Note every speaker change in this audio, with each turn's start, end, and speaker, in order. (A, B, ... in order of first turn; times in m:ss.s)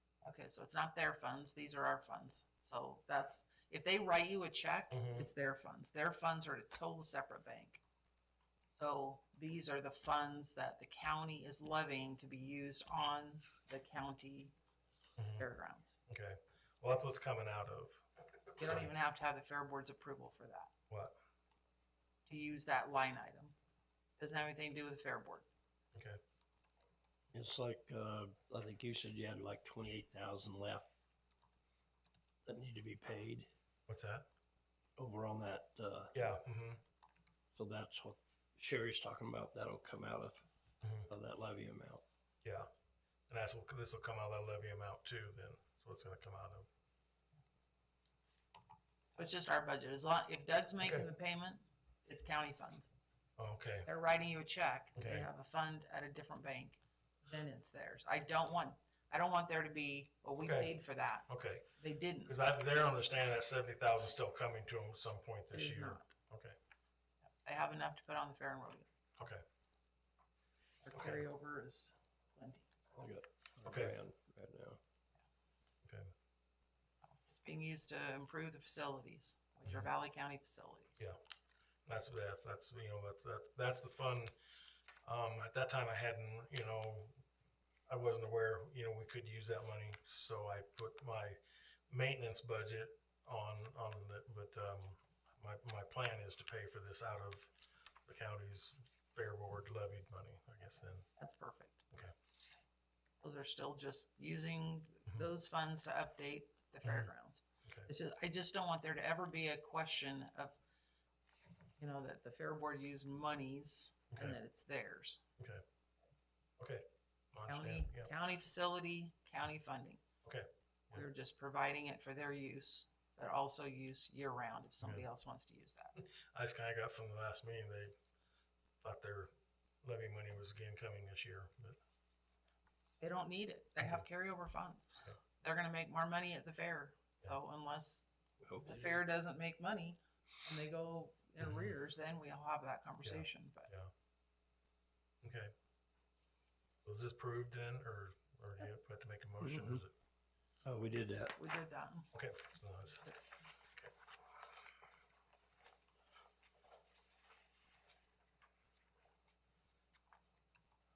0:00.2-0:07.8 A
0:04.9-0:05.3 B
0:08.7-0:14.5 A
0:15.2-0:15.5 B
0:15.3-0:16.0 A
0:16.1-0:18.9 B
0:18.6-0:20.7 A
0:20.9-0:21.2 B
0:22.2-0:23.5 A
0:24.2-0:25.4 A
0:27.3-0:30.9 C
0:32.4-0:33.5 C
0:33.9-0:34.2 B
0:35.0-0:36.1 C
0:36.1-0:36.8 B
0:37.5-0:40.4 C
0:40.8-0:41.1 B
0:41.1-0:42.0 C
0:43.3-0:46.7 B
0:49.1-0:52.9 A
0:50.8-0:51.1 B
0:53.4-0:53.9 B
0:53.8-1:02.4 A
0:55.0-0:55.3 B
1:00.4-1:00.7 B
1:01.3-1:01.7 B
1:02.2-1:06.6 B
1:05.5-1:06.1 A
1:07.4-1:08.9 A
1:09.2-1:09.4 B
1:10.8-1:12.7 A
1:10.9-1:11.2 B
1:12.9-1:14.8 C
1:13.6-1:14.0 B
1:15.8-1:16.1 B
1:17.1-1:21.0 A
1:21.8-1:24.3 B
1:25.0-1:27.2 B
1:27.9-1:31.4 B
1:31.9-1:37.5 B
1:38.0-1:41.0 B
1:41.2-1:41.8 A
1:43.2-1:50.6 A
1:46.8-1:47.1 B
1:51.8-1:55.2 A
1:54.1-1:54.4 B
1:56.6-1:58.1 B
1:57.5-2:00.0 A
2:00.2-2:01.0 B
2:00.9-2:05.9 A
2:04.8-2:05.1 B
2:06.0-2:07.9 B
2:08.8-2:09.3 B
2:09.8-2:11.8 B
2:13.0-2:18.0 A
2:18.5-2:19.0 C
2:18.6-2:23.7 A
2:21.4-2:21.7 B
2:23.0-2:23.9 B
2:25.2-2:25.5 B
2:26.8-2:29.9 B
2:29.4-2:29.8 C
2:30.6-2:31.3 C
2:31.3-2:32.1 A
2:32.1-2:33.1 B